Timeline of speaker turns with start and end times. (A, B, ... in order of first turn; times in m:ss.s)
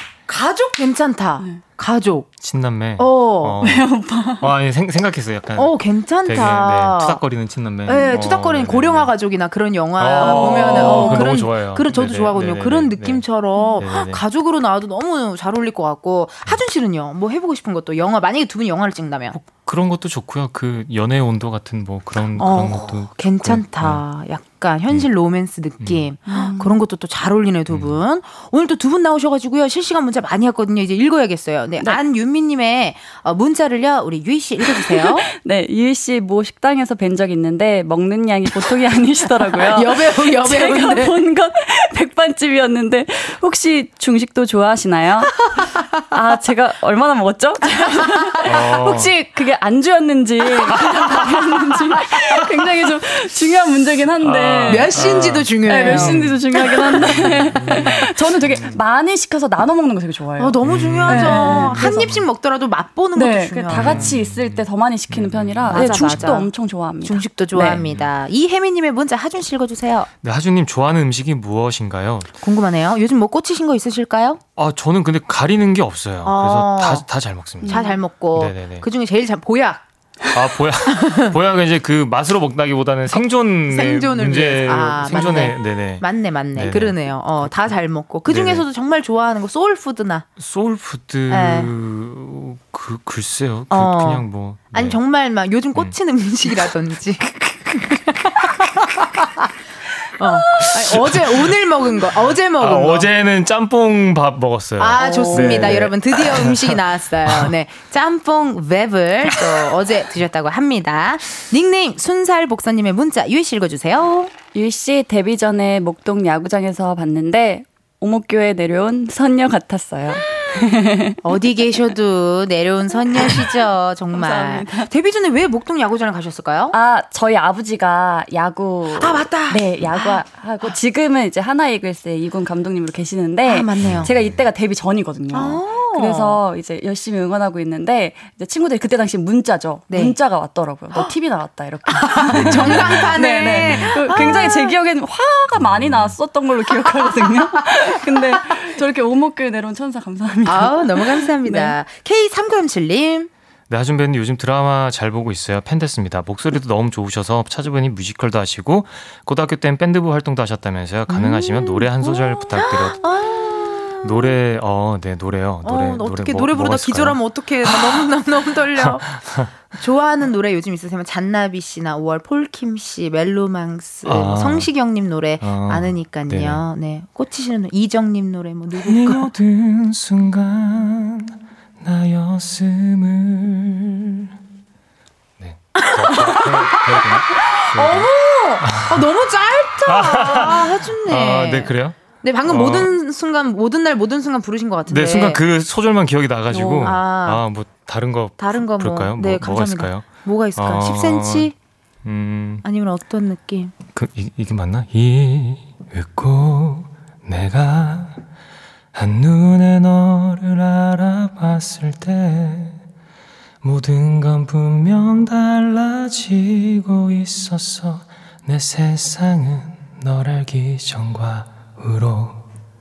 0:00.3-0:02.3 A
0:02.4-0:09.1 B
0:03.0-0:03.6 A
0:03.6-0:04.5 C
0:05.6-0:07.2 A
0:07.8-0:19.4 A
0:10.0-0:13.2 B
0:10.2-0:11.3 C
0:13.8-0:14.2 B
0:19.3-0:24.0 B
0:22.4-0:35.3 A
0:26.3-0:26.8 C
0:27.7-0:28.0 B
0:34.8-0:45.4 C
0:39.5-0:41.1 A
0:46.1-0:54.9 C
0:48.4-0:49.1 B
0:54.2-0:56.4 B
0:54.7-0:57.2 A
0:55.6-1:02.1 C
0:56.9-0:58.8 B
1:00.4-1:04.1 A
1:00.6-1:02.2 B
1:03.1-1:07.8 C
1:03.7-1:06.3 B
1:05.7-1:06.5 A
1:07.0-1:10.1 A
1:07.8-1:08.1 B
1:10.2-1:12.3 B
1:12.4-1:14.4 A
1:14.6-1:18.9 B
1:16.2-1:17.1 A
1:17.6-1:18.0 C
1:17.6-1:19.8 A
1:20.3-1:27.5 B
1:20.9-1:21.3 A
1:23.1-1:30.2 A
1:28.2-1:28.6 B
1:30.4-1:35.0 B
1:31.3-1:31.7 A
1:33.7-1:39.5 A
1:40.2-1:43.1 A
1:40.6-1:41.6 B
1:42.6-1:47.5 B
1:44.8-1:54.3 A
1:45.0-1:45.7 C
1:54.5-2:01.2 C
2:01.2-2:06.8 A
2:04.1-2:04.9 C
2:06.7-2:31.8 C
2:09.0-2:10.2 A
2:13.4-2:14.1 A
2:13.8-2:14.3 B
2:15.3-2:16.4 A
2:19.9-2:20.2 A
2:21.9-2:24.7 A
2:22.3-2:24.3 B
2:25.6-2:26.1 B
2:30.4-2:33.3 A
2:33.7-2:43.0 B
2:41.1-2:44.3 A
2:44.0-2:48.1 B
2:45.6-2:59.3 A
2:48.8-2:49.5 B
2:54.0-2:54.7 B
2:55.4-2:56.6 B
2:58.8-3:04.3 B
3:05.4-3:08.1 B
3:05.8-3:15.4 A
3:08.6-3:09.0 B
3:09.8-3:12.9 B
3:14.9-3:21.5 B
3:16.5-3:17.4 A
3:18.4-3:21.5 A
3:22.0-3:22.6 B
3:22.6-3:23.7 A
3:23.9-3:28.2 B
3:28.9-3:32.8 B
3:33.6-3:42.4 B